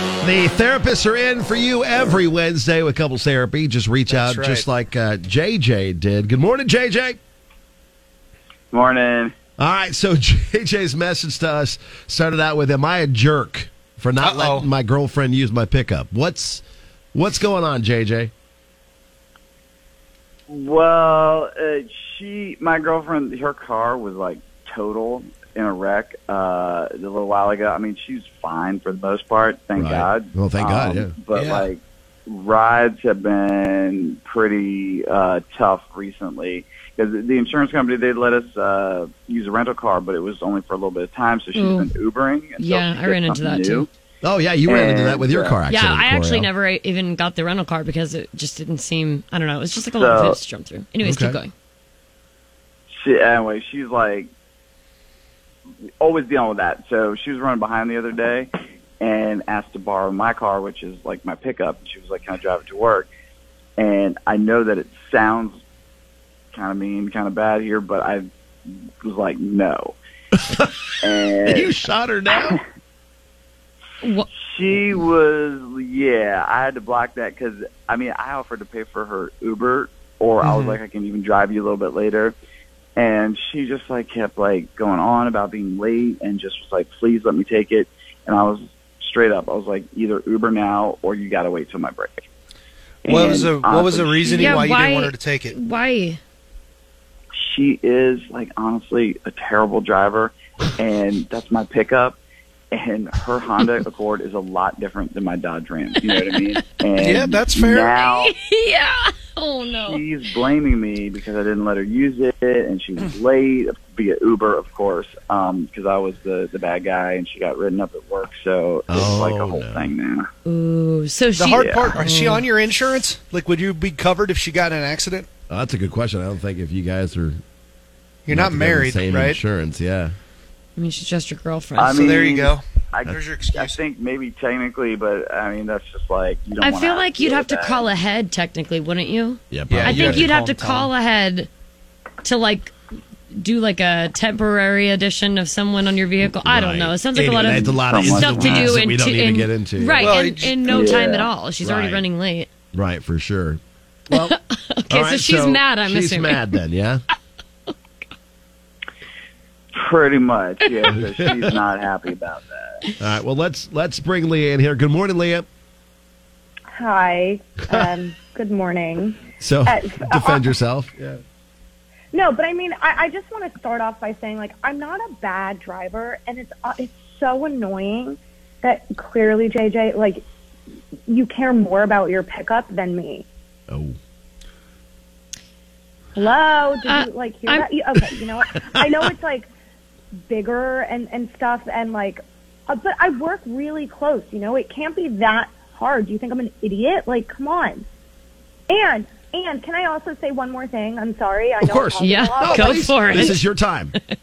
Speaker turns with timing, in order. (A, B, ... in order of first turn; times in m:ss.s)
0:00.2-0:07.2 A
0:04.1-0:04.6 B
0:08.7-0:09.3 C
0:09.6-0:16.6 A
0:14.2-0:14.7 B
0:17.1-0:18.3 A
0:20.5-0:43.9 C
0:29.7-0:31.2 A
0:31.3-0:31.7 B
0:41.5-0:41.9 D
0:42.6-0:43.9 D
0:44.2-0:46.5 A
0:44.6-0:45.6 C
0:45.7-0:51.5 D
0:50.0-0:50.4 C
0:51.0-0:51.4 A
0:52.9-0:54.3 C
0:56.0-1:03.1 C
1:03.8-1:05.6 C
1:06.5-1:10.0 C
1:11.0-1:11.7 C
1:11.4-1:12.6 A
1:14.0-1:14.3 D
1:14.5-1:22.3 C
1:23.0-1:32.2 C
1:33.0-1:34.7 C
1:33.1-1:35.5 B
1:34.4-1:36.2 D
1:37.4-1:42.2 C
1:42.7-1:48.3 C
1:47.0-1:48.0 B
1:48.0-1:50.0 D
1:49.8-2:00.3 C
1:58.9-1:59.9 A
2:00.4-2:02.4 D
2:01.3-2:05.3 B
2:01.5-2:01.9 C
2:05.5-2:07.4 A
2:08.2-2:09.4 B
2:08.3-2:10.1 A
2:10.8-2:12.4 D
2:11.8-2:17.8 C
2:11.9-2:13.8 B
2:16.6-2:21.5 D
2:19.5-2:20.3 A
2:19.7-2:20.9 B
2:22.2-2:22.7 D
2:23.3-2:32.5 D
2:26.2-2:30.1 A
2:27.4-2:28.8 C
2:30.0-2:30.9 B
2:30.6-2:31.3 C
2:31.6-2:32.0 A
2:32.7-2:34.3 A
2:34.1-2:36.5 D
2:34.9-2:37.0 A
2:39.7-2:42.8 C
2:41.0-2:41.4 A
2:43.0-2:45.4 A
2:46.7-2:50.6 E
2:49.4-2:51.2 A
2:52.1-3:00.2 E
3:01.1-3:03.2 E
3:03.7-3:04.0 A
3:06.1-3:09.5 E
3:06.8-3:07.7 D
3:10.3-3:17.8 E
3:18.7-3:23.3 E
3:21.6-3:23.9 A
3:22.0-3:23.5 D